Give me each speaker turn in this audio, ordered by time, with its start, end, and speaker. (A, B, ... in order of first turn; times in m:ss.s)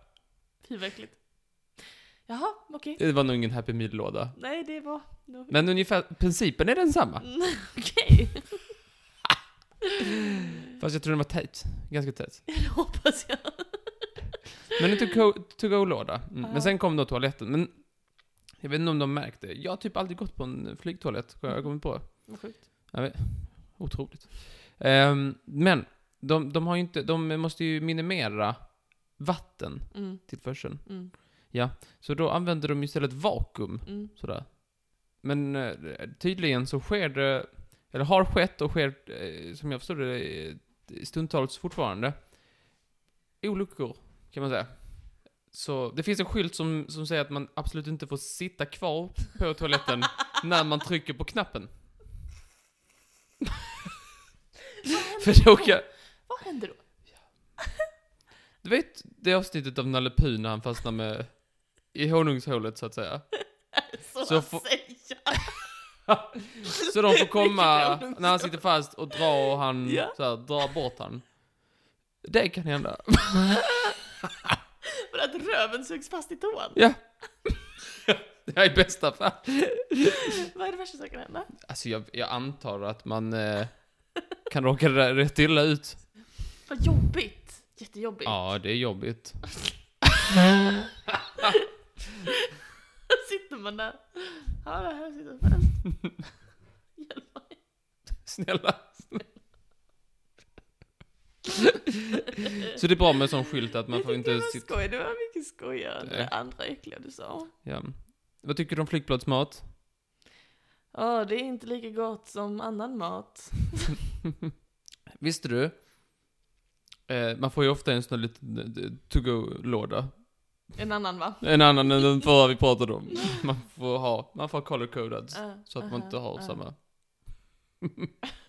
0:00.6-0:03.0 A
0:03.0-0:04.4 B
0:04.3-0:05.8 A
0:05.5-0:07.3 B
0:07.2-0:08.8 A
0:10.3-0:12.5 B
0:12.5-0:14.1 A
0:14.7-0:42.8 B
0:16.4-0:16.8 A
0:21.5-0:22.6 A
0:29.9-0:31.1 A
0:33.8-0:34.1 A
0:43.4-0:51.8 B
0:54.8-0:57.1 A
0:55.2-0:55.9 B
0:58.6-1:03.3 B
1:03.7-1:05.7 A
1:04.2-1:04.7 B
1:06.1-1:14.0 B
1:07.2-1:08.6 A
1:09.8-1:10.7 A
1:15.0-1:17.1 A
1:16.7-1:20.2 B
1:20.4-1:21.5 A
1:21.6-1:26.1 B
1:26.6-1:28.6 A
1:28.2-1:29.6 B
1:33.1-1:36.3 A
1:36.9-1:37.6 A
1:38.2-1:39.3 B
1:42.6-1:44.7 B
1:43.9-1:47.5 A
1:46.0-1:46.3 B
1:47.6-1:49.7 B
1:50.9-1:54.0 A
1:55.2-1:55.8 B
1:57.1-2:00.7 B
2:00.7-2:02.2 A
2:01.4-2:08.1 B
2:05.3-2:06.6 A